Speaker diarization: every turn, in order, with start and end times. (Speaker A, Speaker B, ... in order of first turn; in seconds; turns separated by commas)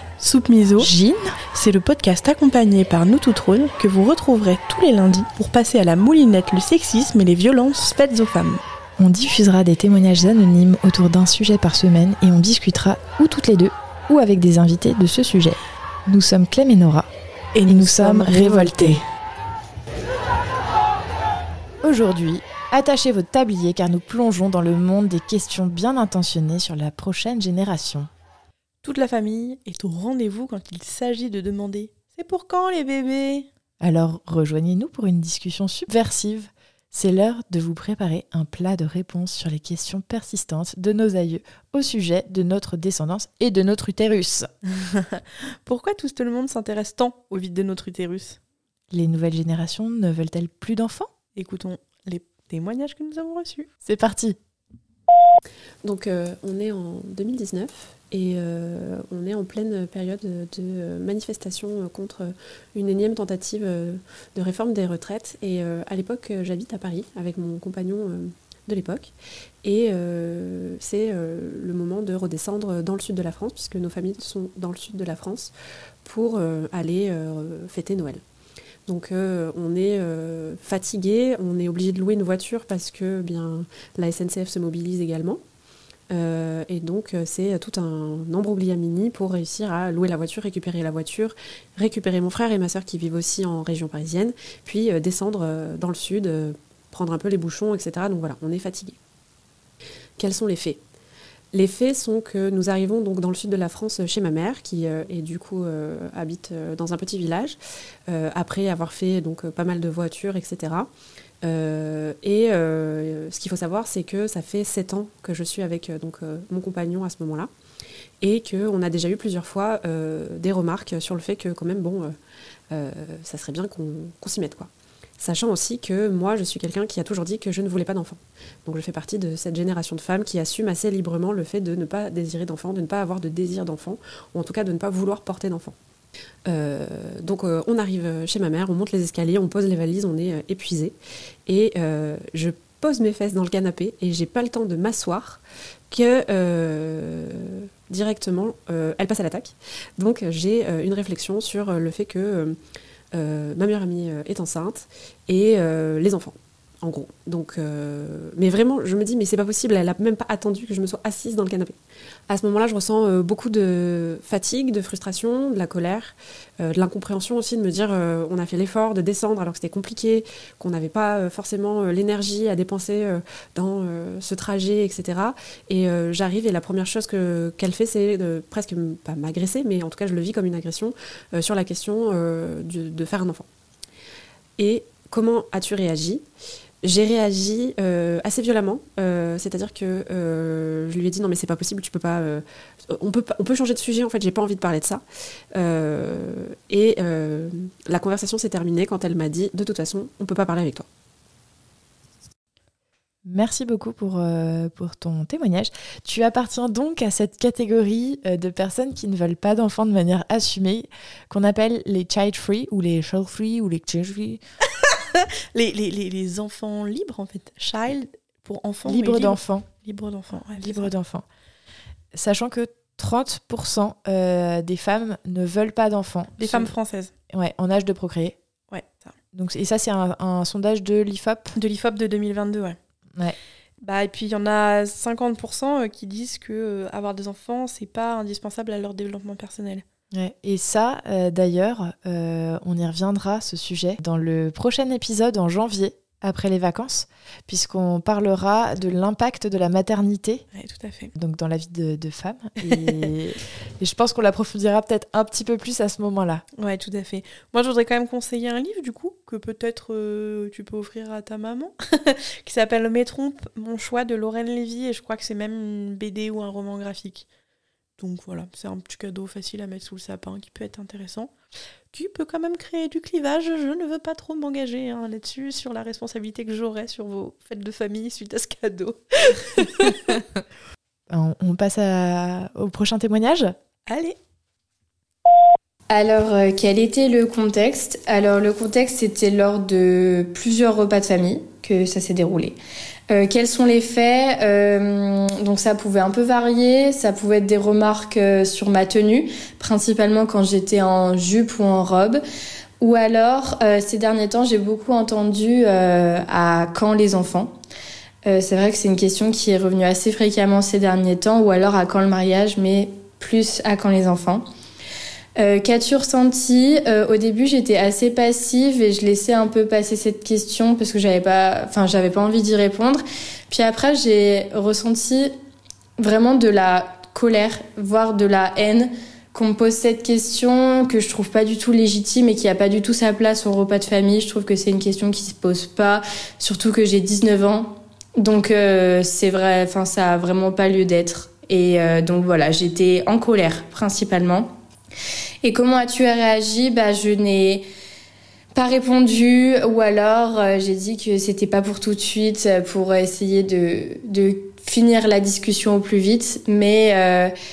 Speaker A: 0.2-0.9, Speaker B: 0.8-1.3, Speaker A: 1.5-8.6, Speaker B: 9.0-17.1, Speaker A: 17.5-19.0, Speaker B: 17.7-19.0, Speaker B: 21.8-28.1, Speaker A: 28.8-33.5, Speaker B: 33.8-44.5, Speaker A: 44.7-48.4, Speaker B: 48.9-51.1, Speaker A: 51.4-53.7, Speaker B: 53.8-54.4, Speaker C: 55.8-69.1, Speaker C: 69.6-75.5, Speaker C: 76.0-78.2, Speaker C: 78.9-85.4, Speaker C: 86.1-99.0, Speaker C: 100.2-100.8, Speaker C: 101.5-107.6, Speaker C: 108.1-110.9, Speaker C: 111.4-117.5, Speaker C: 118.2-122.1, Speaker C: 122.7-135.7, Speaker C: 136.5-140.9, Speaker C: 141.5-152.6, Speaker C: 153.1-161.7, Speaker C: 162.3-183.5, Speaker C: 184.6-186.2, Speaker C: 186.8-192.4, Speaker C: 192.9-195.0, Speaker C: 195.5-200.9, Speaker B: 203.2-214.4, Speaker A: 214.8-220.9, Speaker B: 218.8-219.7, Speaker B: 220.6-221.2, Speaker B: 222.1-226.7, Speaker A: 226.4-227.1, Speaker B: 227.3-228.4, Speaker A: 228.7-229.1, Speaker B: 229.3-231.5, Speaker A: 231.6-232.8, Speaker A: 233.8-239.8, Speaker B: 240.1-250.4, Speaker A: 250.5-251.1, Speaker B: 251.1-256.4, Speaker A: 256.6-267.3, Speaker A: 268.0-271.3, Speaker A: 271.9-280.2, Speaker B: 281.1-283.5, Speaker A: 283.9-284.2, Speaker D: 285.9-292.6, Speaker D: 293.1-302.2, Speaker D: 302.8-307.5, Speaker D: 308.2-314.4, Speaker D: 315.4-325.3, Speaker D: 326.0-344.5, Speaker D: 345.4-347.6, Speaker D: 348.5-357.3